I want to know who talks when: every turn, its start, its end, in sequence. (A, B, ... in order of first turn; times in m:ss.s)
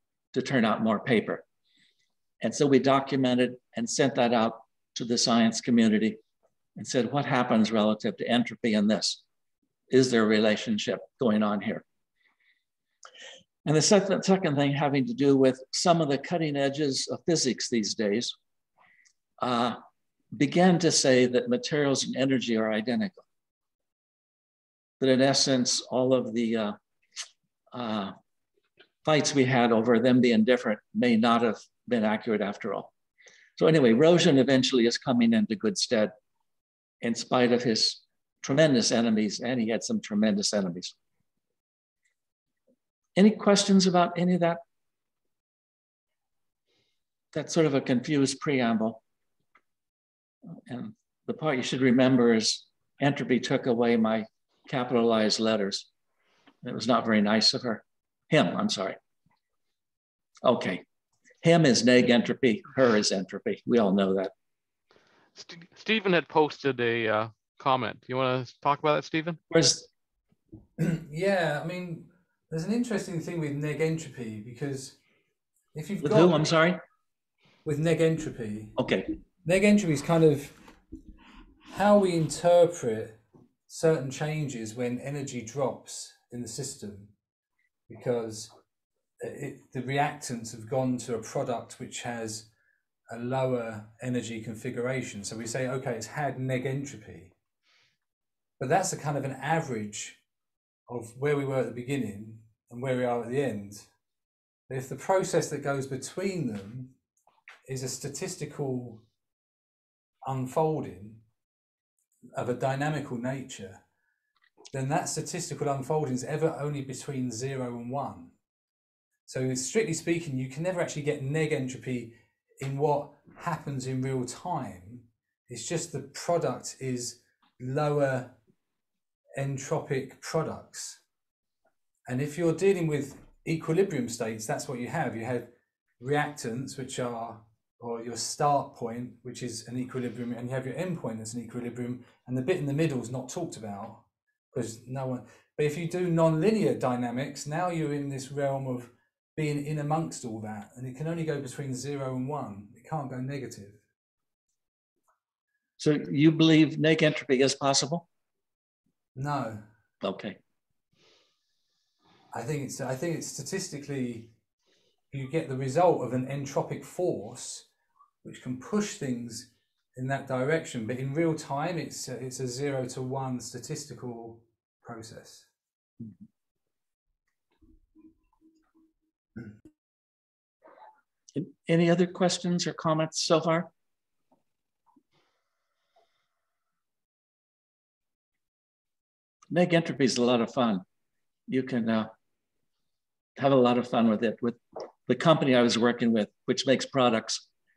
0:00.3-0:01.4 A
0:02.4-0:06.2 A
0:06.8-0:09.2 A
0:09.9-0:11.8 A
0:13.6-0:18.3 A
0:19.4-0:19.8 A
0:20.3-0:23.2 A
0:25.0-0:26.8 A
0:27.7-0:28.1 A
0:29.0-0:32.9 A
0:33.6-0:36.1 A
0:37.0-0:40.9 A
0:43.2-0:44.6 A
0:47.3-0:49.0 A
0:50.7-0:55.9 A
0:56.6-0:59.0 A
1:00.4-1:00.8 A
1:01.4-1:04.3 A
1:05.4-1:09.4 B
1:09.5-1:09.9 A
1:10.8-1:15.0 C
1:15.7-1:16.5 C
1:16.0-1:16.8 A
1:17.6-1:18.8 C
1:18.8-1:19.1 A
1:19.4-1:20.7 C
1:21.7-1:27.1 C
1:27.9-1:28.5 C
1:29.2-1:32.5 C
1:33.1-1:37.3 C
1:38.6-1:40.2 C
1:40.9-1:43.9 C
1:44.7-1:46.9 C
1:47.7-1:49.0 C
1:50.2-1:51.2 C
1:52.4-1:53.8 C
1:54.7-1:58.3 C
1:59.3-2:08.3 C
2:09.4-2:11.0 C
2:12.1-2:33.8 C
2:35.8-2:38.1 A
2:39.2-2:39.6 C
2:40.0-2:40.4 A
2:42.3-2:44.3 C
2:45.1-2:47.7 C
2:48.2-2:55.5 C
3:01.4-3:03.7 A
3:09.5-3:10.8 A
3:11.5-3:12.1 A
3:13.4-3:17.4 A